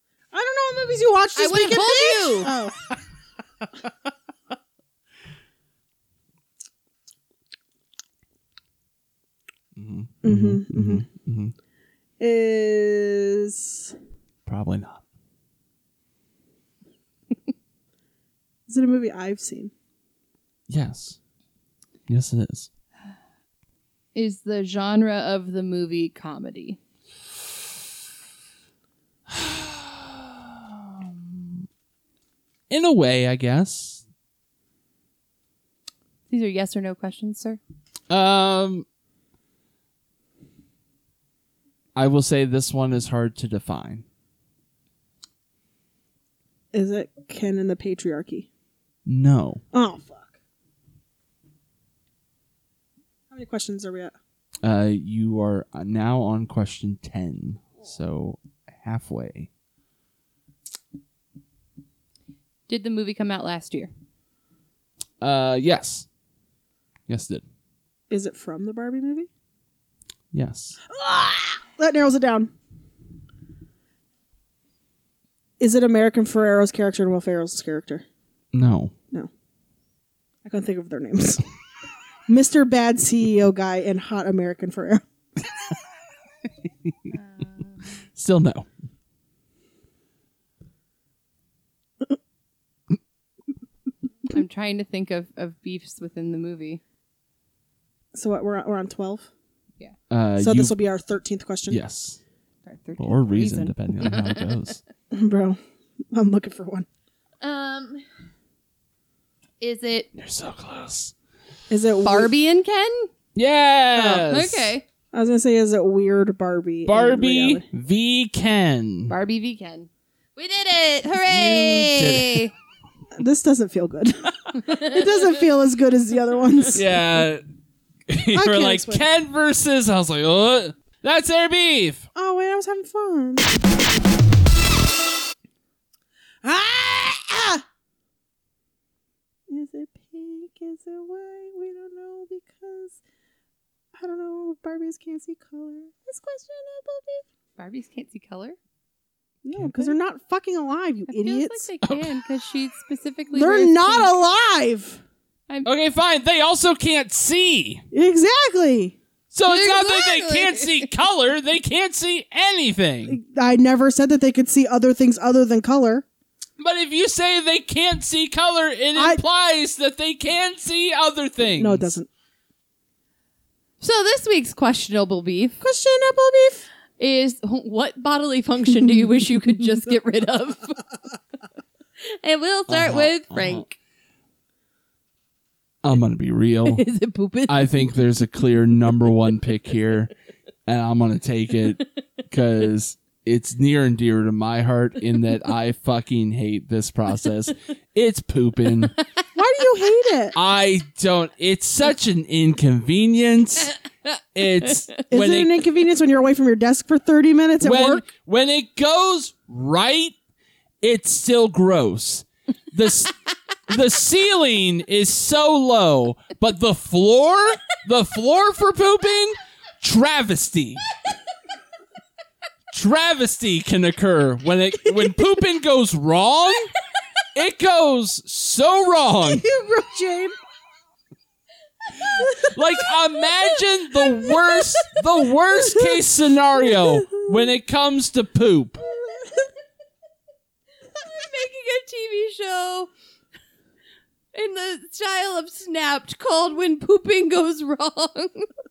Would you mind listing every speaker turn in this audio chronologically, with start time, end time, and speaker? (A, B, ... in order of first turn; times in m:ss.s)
0:00.3-0:02.8 A
0:01.4-0:02.5 B
0:09.8-0:11.5 C
0:10.2-0:11.0 A
0:12.2-0:14.0 A
0:14.5-0:15.0 C
0:18.7-0:19.7 A
0:20.7-0:21.2 C
0:22.1-0:22.7 C
0:24.2-0:26.8 B
0:29.3-0:31.6 C
0:32.7-0:34.0 C
0:36.3-0:37.6 B
0:38.1-0:38.8 C
0:42.0-0:44.0 C
0:46.7-0:48.5 A
0:49.1-0:49.6 C
0:49.7-0:50.4 A
0:53.3-0:54.2 A
0:54.6-0:59.5 C
1:02.7-1:03.9 B
1:05.2-1:06.1 C
1:07.1-1:07.4 C
1:08.1-1:09.3 A
1:10.3-1:10.8 C
1:10.9-1:12.5 A
1:15.6-1:18.1 A
1:18.5-1:18.9 C
1:20.4-1:21.4 A
1:22.3-1:25.0 A
1:27.4-1:27.8 B
1:28.2-1:28.7 C
1:34.3-1:36.8 B
1:38.1-1:39.3 A
1:40.1-1:40.8 C
1:40.4-1:41.8 A
1:41.7-1:42.2 C
1:42.7-1:44.5 B
1:43.0-1:44.8 C
1:45.1-1:45.6 A
1:46.1-1:46.9 A
1:47.4-1:48.0 B
1:49.6-1:50.1 B
1:50.2-1:51.1 C
1:51.7-1:52.3 A
1:52.0-1:53.1 B
1:53.4-1:54.7 C
1:54.0-1:54.3 A
1:54.3-1:54.8 B
1:55.1-1:57.6 A
1:56.9-1:59.1 C
1:59.1-2:02.5 B
2:01.3-2:02.5 C
2:03.2-2:06.9 A
2:04.6-2:05.0 B
2:06.7-2:07.4 C
2:08.1-2:12.1 C
2:08.3-2:09.0 A
2:12.2-2:13.5 A
2:16.4-2:17.6 A
2:19.5-2:23.0 A
2:24.0-2:27.2 A
2:27.6-2:28.6 B
2:29.4-2:31.7 A
2:29.5-2:29.9 C
2:31.1-2:34.1 B
2:31.8-2:32.2 C
2:33.3-2:35.0 A
2:35.6-2:37.8 C
2:37.9-2:39.0 A
2:39.3-2:43.2 C
2:39.5-2:40.9 B
2:43.1-2:46.0 A
2:46.6-2:51.9 C
2:49.0-2:49.2 A
2:51.6-2:52.1 A
2:53.8-2:55.6 B
2:55.6-2:56.7 A
2:57.0-3:00.8 B
3:02.2-3:03.8 B
3:02.7-3:03.6 C
3:05.8-3:06.8 C
3:06.7-3:07.9 B
3:07.5-3:10.1 C
3:10.7-3:19.0 C
3:19.4-3:20.4 A
3:20.4-3:23.8 C
3:24.4-3:25.6 C
3:25.1-3:28.0 A
3:27.6-3:30.1 C
3:30.8-3:33.2 C
3:33.7-3:40.9 C
3:42.7-3:46.8 C
3:47.3-3:49.5 C
3:49.3-3:50.4 A
3:52.0-3:58.8 C
3:52.2-3:52.5 A
3:55.6-3:56.0 A
3:56.6-3:57.5 A
3:58.8-3:59.5 A
4:01.0-4:02.9 B
4:04.3-4:08.5 B